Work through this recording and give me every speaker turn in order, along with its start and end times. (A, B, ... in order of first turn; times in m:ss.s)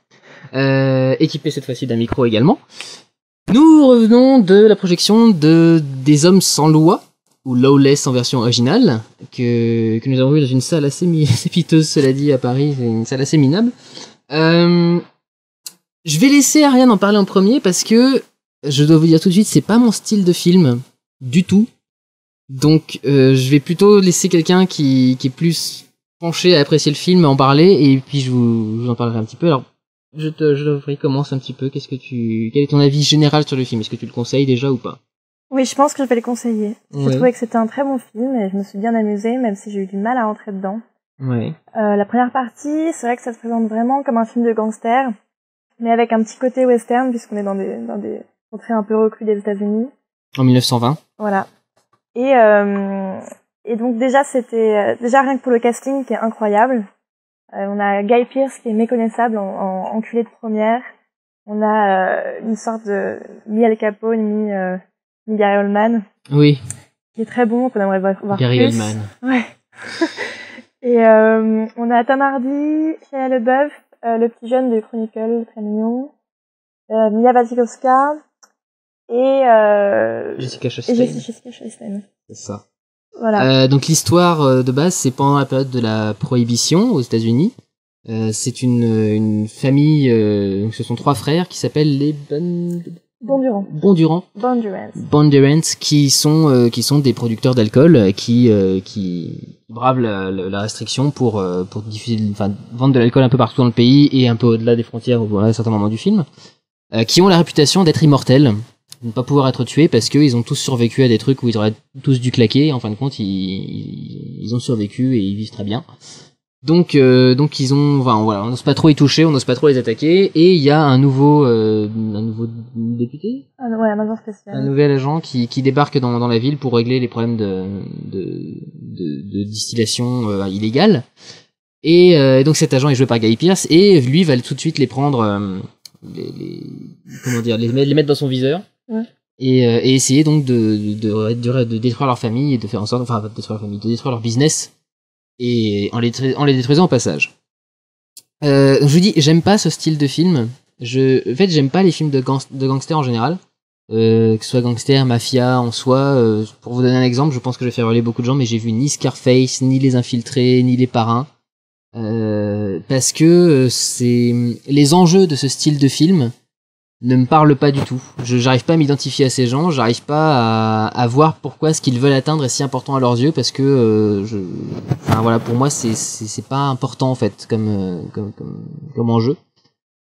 0:00.5-0:02.6 A
0:03.5-0:13.7 A
0:14.3-0:15.0 A
0:16.0-0:21.7 A
0:22.5-0:35.0 A
0:35.5-0:40.8 B
0:36.9-0:37.3 A
0:41.2-0:41.6 A
0:41.8-0:45.1 B
0:45.8-0:49.9 B
0:50.4-0:51.0 A
0:51.2-0:51.5 B
0:52.2-0:56.9 B
0:57.6-1:00.8 B
1:01.5-1:06.0 B
1:06.3-1:06.6 A
1:07.2-1:16.1 B
1:08.3-1:09.1 A
1:16.9-1:18.2 B
1:19.1-1:22.0 B
1:20.4-1:21.3 A
1:22.3-1:22.6 A
1:23.2-1:23.5 B
1:23.4-1:27.5 A
1:28.1-1:34.3 A
1:33.2-1:33.7 B
1:34.4-1:35.0 B
1:35.0-1:46.3 A
1:46.9-1:55.8 A
1:56.6-2:03.4 A
2:03.6-2:04.7 B
2:04.5-2:11.0 A
2:11.8-2:18.6 A
2:19.4-2:24.7 A
2:25.4-2:27.3 A
2:28.4-2:41.3 A
2:42.0-2:46.3 A
2:47.0-2:59.4 A